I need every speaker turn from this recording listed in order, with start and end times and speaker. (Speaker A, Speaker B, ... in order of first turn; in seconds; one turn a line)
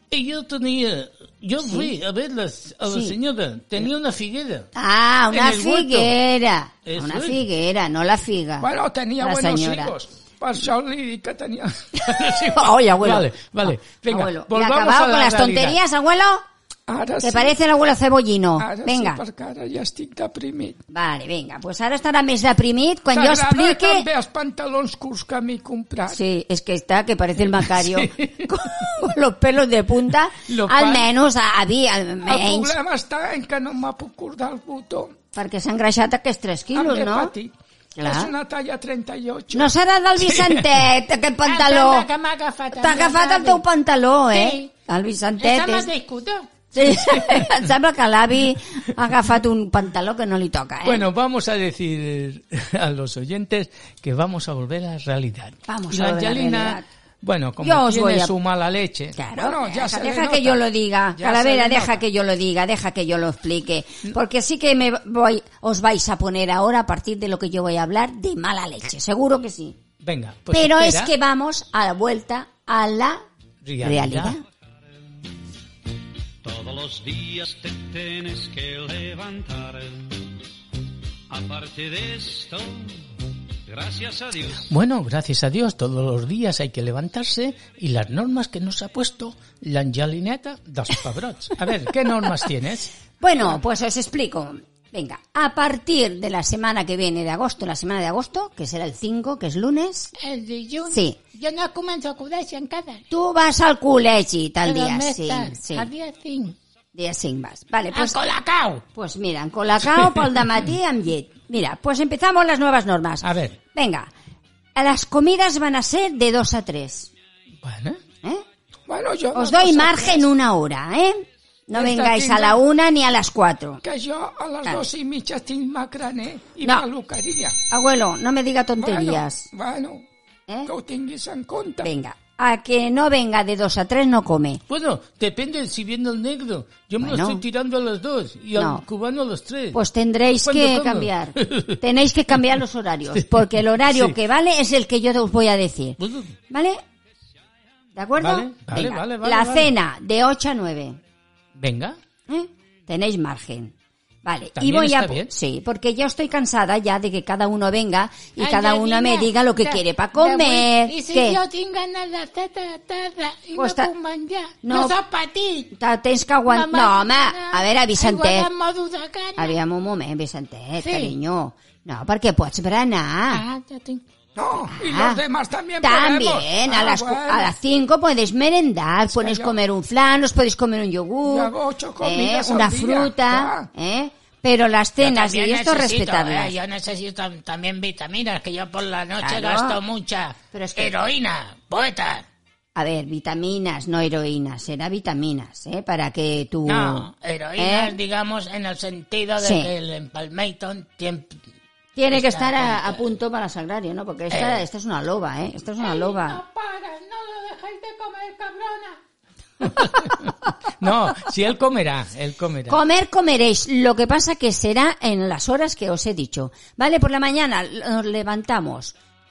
Speaker A: 0.1-4.7
Speaker B: 1.6-1.9
Speaker B: 2.9-3.1
Speaker B: 4.7-8.7
Speaker A: 5.3-6.2
Speaker A: 6.8-7.4
Speaker C: 8.6-11.8
Speaker B: 9.2-9.9
Speaker A: 12.0-15.8
Speaker B: 12.3-16.4
Speaker C: 16.9-17.5
Speaker B: 17.2-19.2
Speaker C: 18.6-20.8
Speaker B: 20.9-24.1
Speaker C: 23.1-26.2
Speaker B: 26.1-32.7
Speaker A: 27.5-29.1
Speaker A: 30.5-31.1
Speaker C: 32.2-35.1
Speaker B: 35.3-37.3
Speaker C: 36.7-39.7
Speaker B: 37.9-38.3
Speaker B: 39.5-42.0
Speaker A: 40.2-40.8
Speaker D: 41.5-43.6
Speaker B: 42.7-45.9
Speaker D: 44.3-44.7
Speaker D: 45.4-46.5
Speaker B: 46.7-51.0
Speaker A: 46.8-47.7
Speaker A: 50.8-59.2
Speaker B: 55.7-56.8
Speaker B: 57.6-58.3
Speaker B: 59.1-69.8
Speaker C: 59.3-62.0
Speaker A: 70.0-71.1
Speaker B: 70.5-73.2
Speaker A: 73.6-74.3
Speaker B: 73.8-74.4
Speaker E: 76.4-80.3
Speaker E: 81.3-83.0
Speaker E: 83.7-84.7
Speaker A: 84.7-92.9
Speaker B: 93.2-100.1
Speaker D: 100.2-103.0
Speaker B: 100.9-101.2
Speaker B: 103.1-105.9
Speaker D: 104.6-106.5
Speaker B: 106.9-108.2
Speaker D: 107.9-108.8
Speaker B: 108.9-114.1
Speaker A: 109.8-110.4
Speaker A: 113.2-113.6
Speaker B: 114.8-117.1
Speaker A: 117.6-118.0
Speaker C: 118.9-120.3
Speaker B: 119.3-123.8
Speaker C: 121.7-122.6
Speaker C: 123.8-127.6
Speaker B: 127.7-129.5
Speaker C: 128.8-130.0
Speaker C: 130.7-131.9
Speaker B: 131.8-134.6
Speaker A: 134.7-139.8
Speaker B: 137.0-137.4
Speaker B: 138.5-138.8
Speaker B: 139.7-146.8
Speaker A: 140.4-141.8
Speaker A: 143.1-144.2
Speaker A: 146.0-146.3
Speaker B: 147.9-151.0
Speaker A: 148.2-149.7
Speaker A: 151.6-152.0
Speaker B: 152.3-153.7
Speaker B: 154.2-161.4
Speaker A: 154.6-155.3
Speaker D: 158.4-165.7
Speaker B: 163.6-163.9
Speaker B: 164.6-165.0
Speaker B: 165.8-168.5
Speaker D: 166.5-169.6
Speaker B: 169.4-173.4
Speaker D: 170.8-171.1
Speaker D: 173.3-174.0
Speaker C: 174.3-177.5
Speaker B: 174.7-175.2
Speaker B: 175.8-186.6
Speaker C: 179.1-179.6
Speaker C: 181.2-183.7
Speaker D: 185.0-192.2
Speaker B: 189.2-189.8
Speaker B: 190.5-191.0
Speaker B: 192.8-198.0
Speaker D: 196.7-201.4
Speaker B: 199.4-199.7
Speaker B: 201.9-206.4
Speaker D: 202.1-203.0
Speaker D: 204.3-204.6
Speaker D: 205.8-209.0
Speaker A: 209.6-212.8
Speaker B: 212.7-218.9